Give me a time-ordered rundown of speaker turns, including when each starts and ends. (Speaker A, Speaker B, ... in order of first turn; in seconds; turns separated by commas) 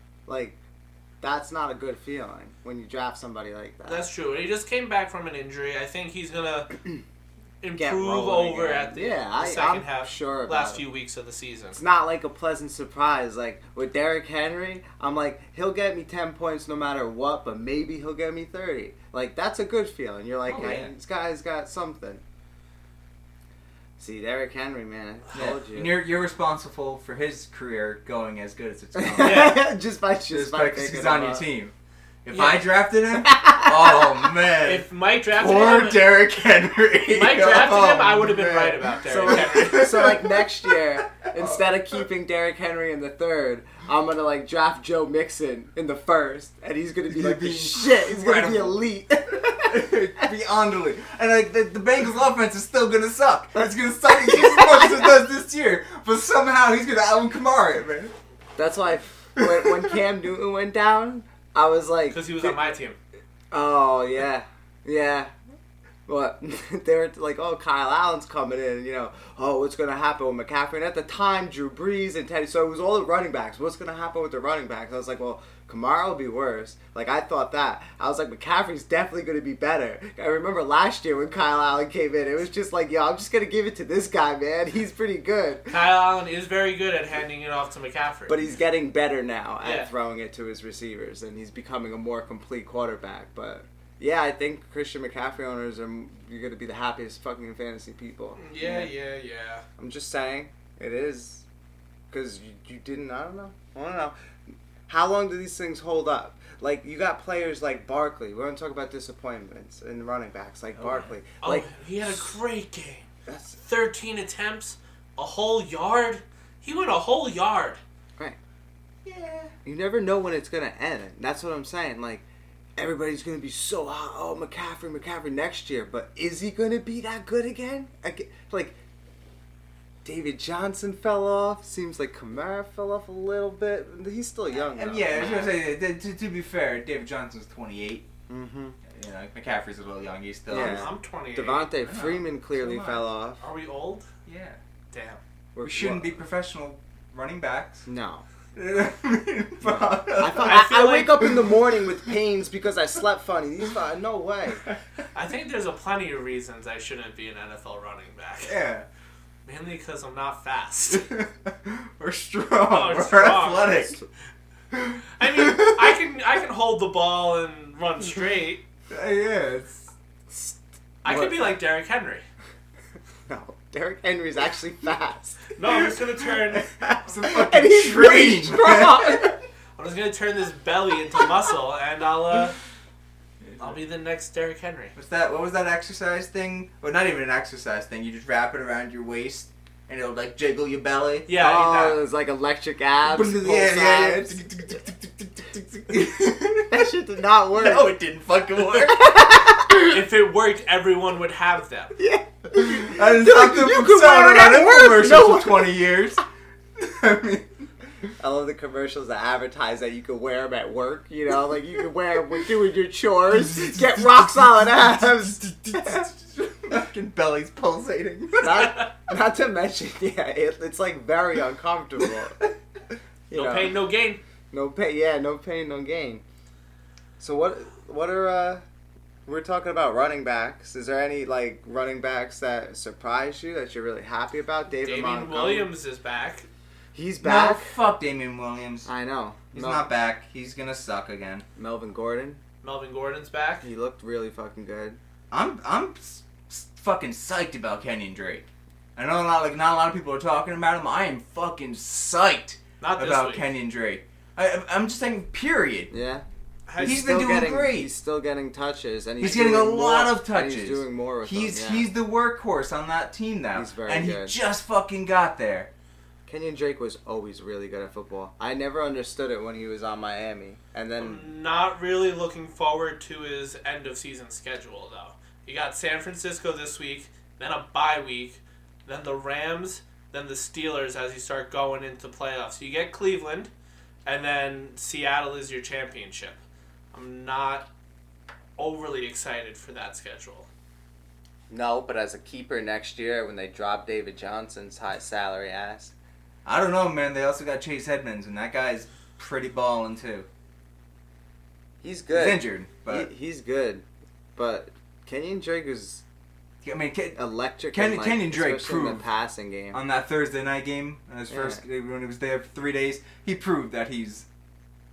Speaker A: 0.3-0.6, Speaker A: 1.2-4.1, Speaker B: 3.9-6.8, Speaker B: 7.6-11.8, Speaker A: 7.7-10.8, Speaker A: 11.7-22.2, Speaker C: 20.5-20.9, Speaker A: 24.0-25.9, Speaker C: 25.3-29.7, Speaker A: 28.9-31.4, Speaker B: 29.2-29.6, Speaker C: 30.3-31.7, Speaker C: 32.2-40.5, Speaker B: 32.3-32.6, Speaker A: 33.2-34.1, Speaker B: 34.6-36.1, Speaker B: 37.1-40.0, Speaker A: 39.0-49.9, Speaker C: 41.1-41.6, Speaker C: 47.1-48.8, Speaker C: 49.5-58.1, Speaker A: 54.1-55.1, Speaker A: 58.5-62.6, Speaker C: 59.4-59.8, Speaker B: 62.1-63.0, Speaker A: 63.5-65.3, Speaker A: 66.0-85.7, Speaker B: 85.7-88.4, Speaker A: 88.3-98.4, Speaker B: 89.6-89.9, Speaker B: 98.4-99.6, Speaker C: 98.6-98.8, Speaker A: 99.8-101.5, Speaker A: 102.1-104.1, Speaker A: 104.9-112.3, Speaker C: 110.8-111.1, Speaker B: 111.4-113.1, Speaker A: 113.2-113.6, Speaker B: 113.6-117.8, Speaker C: 119.0-119.5, Speaker A: 119.6-122.2, Speaker A: 122.8-128.8, Speaker A: 130.0-135.5, Speaker C: 134.6-138.1, Speaker A: 138.3-138.8, Speaker C: 138.8-140.9, Speaker A: 140.5-143.4, Speaker B: 140.5-141.7, Speaker C: 141.8-143.0, Speaker B: 143.4-144.1, Speaker C: 144.2-144.6, Speaker B: 144.9-145.2, Speaker A: 145.5-146.2, Speaker C: 145.6-147.9, Speaker A: 147.8-148.2, Speaker C: 148.5-150.6, Speaker A: 149.6-154.6, Speaker B: 150.4-151.3, Speaker B: 155.1-158.5, Speaker C: 158.4-158.8, Speaker B: 159.4-161.1, Speaker C: 160.9-164.0, Speaker B: 162.7-164.0, Speaker C: 164.7-166.0, Speaker B: 165.2-168.6, Speaker C: 168.9-169.9, Speaker A: 170.3-171.5, Speaker B: 171.0-172.2, Speaker A: 173.3-175.4, Speaker B: 175.6-176.7, Speaker C: 175.6-176.0, Speaker C: 176.5-179.4, Speaker A: 176.8-179.4, Speaker B: 179.8-182.6, Speaker C: 183.4-183.8, Speaker B: 183.6-184.9, Speaker C: 184.9-191.3, Speaker B: 191.3-192.0, Speaker A: 191.4-194.4, Speaker C: 193.1-196.9, Speaker A: 196.7-197.9, Speaker C: 197.5-199.4, Speaker A: 198.6-200.0, Speaker B: 199.8-201.9, Speaker A: 202.0-205.8, Speaker C: 202.6-206.2, Speaker C: 206.8-207.5, Speaker A: 208.2-216.1, Speaker C: 213.3-218.8, Speaker A: 218.4-222.4, Speaker A: 223.3-223.8, Speaker B: 223.3-224.2, Speaker A: 224.5-226.2, Speaker A: 227.2-228.7, Speaker A: 229.2-235.7, Speaker B: 234.8-236.5, Speaker A: 236.9-237.7, Speaker C: 237.2-238.9, Speaker A: 238.8-239.9, Speaker C: 239.5-241.4, Speaker A: 241.6-242.4, Speaker B: 242.6-243.7, Speaker A: 243.6-245.0, Speaker C: 245.3-255.9, Speaker B: 252.8-253.5, Speaker A: 255.9-256.2, Speaker B: 256.7-257.0, Speaker A: 256.8-261.9, Speaker C: 256.8-257.9, Speaker C: 259.2-265.7, Speaker A: 263.5-264.4, Speaker A: 266.3-271.3, Speaker B: 271.0-283.5, Speaker B: 284.0-286.4, Speaker B: 286.9-287.7, Speaker B: 288.6-290.5, Speaker A: 291.5-295.9, Speaker C: 296.4-300.3, Speaker A: 301.8-303.8, Speaker C: 302.1-303.1, Speaker A: 304.4-306.0, Speaker C: 306.6-307.2, Speaker A: 307.1-309.8, Speaker C: 307.7-309.0, Speaker C: 309.7-314.3, Speaker A: 311.3-311.6